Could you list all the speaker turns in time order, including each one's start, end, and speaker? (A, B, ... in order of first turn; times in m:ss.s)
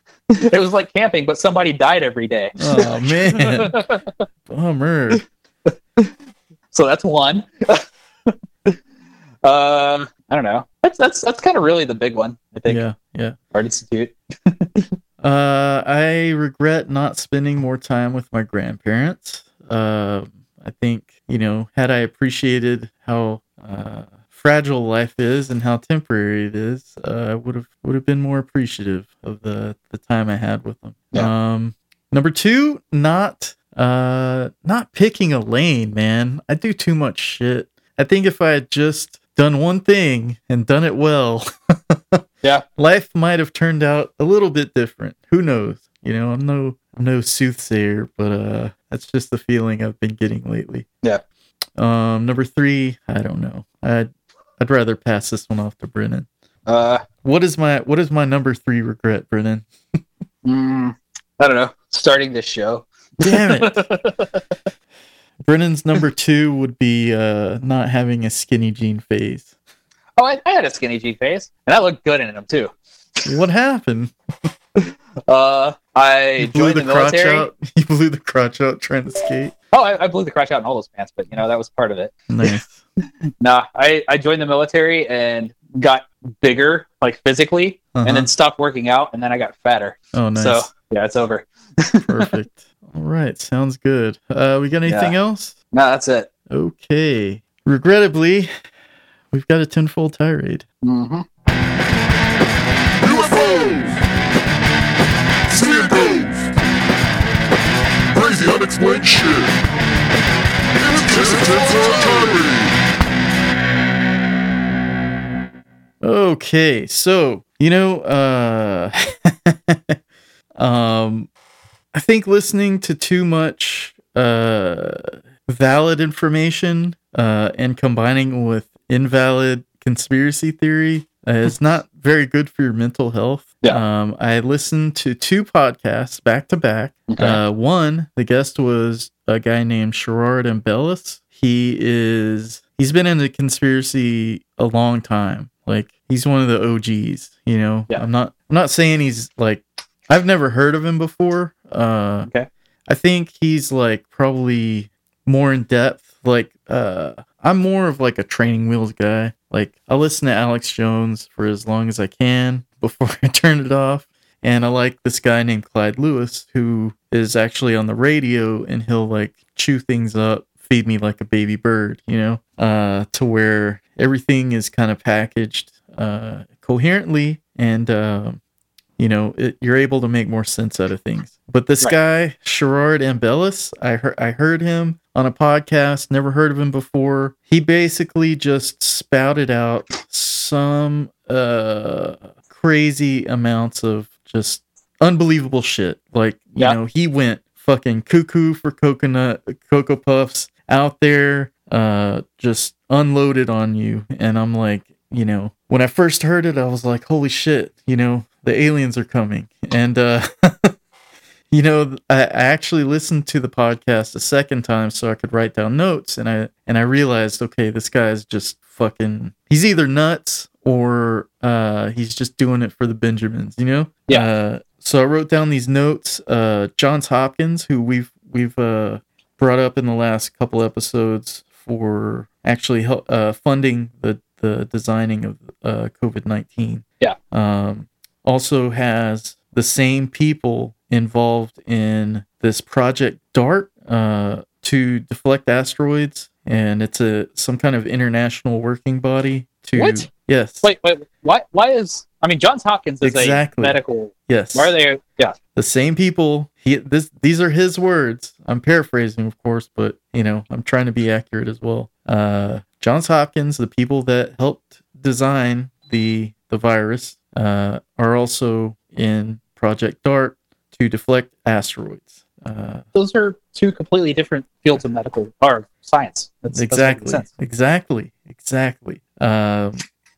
0:00.3-0:04.1 A
0:02.6-0:03.8 B
0:04.5-0:05.2 B
0:05.7-0:06.1 A
0:06.7-0:08.8 A
0:09.4-0:12.8 A
0:12.7-0:13.4 B
0:13.5-0:14.9 A
0:15.2-0:42.2 B
0:42.8-0:50.9 B
0:51.8-0:56.3 B
0:56.7-0:57.0 A
0:57.2-0:59.6 B
1:00.4-1:04.5 A
1:03.2-1:03.8 B
1:05.4-1:09.5 B
1:10.2-1:12.7 A
1:13.2-1:14.1 B
1:14.8-1:17.5 A
1:16.4-1:19.5 B
1:19.7-1:22.5 A
1:22.3-1:22.8 B
1:23.4-1:32.1 A
1:27.9-1:28.3 B
1:30.1-1:30.7 B
1:32.1-1:35.6 B
1:34.8-1:35.2 A
1:35.7-1:36.3 A
1:36.5-1:38.5 B
1:39.3-1:40.6 B
1:40.8-1:41.3 A
1:43.0-1:44.0 C
1:45.5-1:46.6 C
1:48.1-1:49.6 C
1:50.7-1:52.8 C
1:56.0-2:00.0 B
2:00.6-2:01.3 B
2:01.9-2:32.3 B
2:17.1-2:17.4 A
2:32.9-2:58.4 B
2:59.0-3:30.8 B
3:31.5-4:10.7 B
4:09.8-4:10.1 A
4:10.6-4:15.4 A
4:13.0-4:13.8 B
4:14.3-4:14.7 B
4:15.6-4:32.8 B
4:32.9-4:37.3 A
4:36.5-4:39.8 B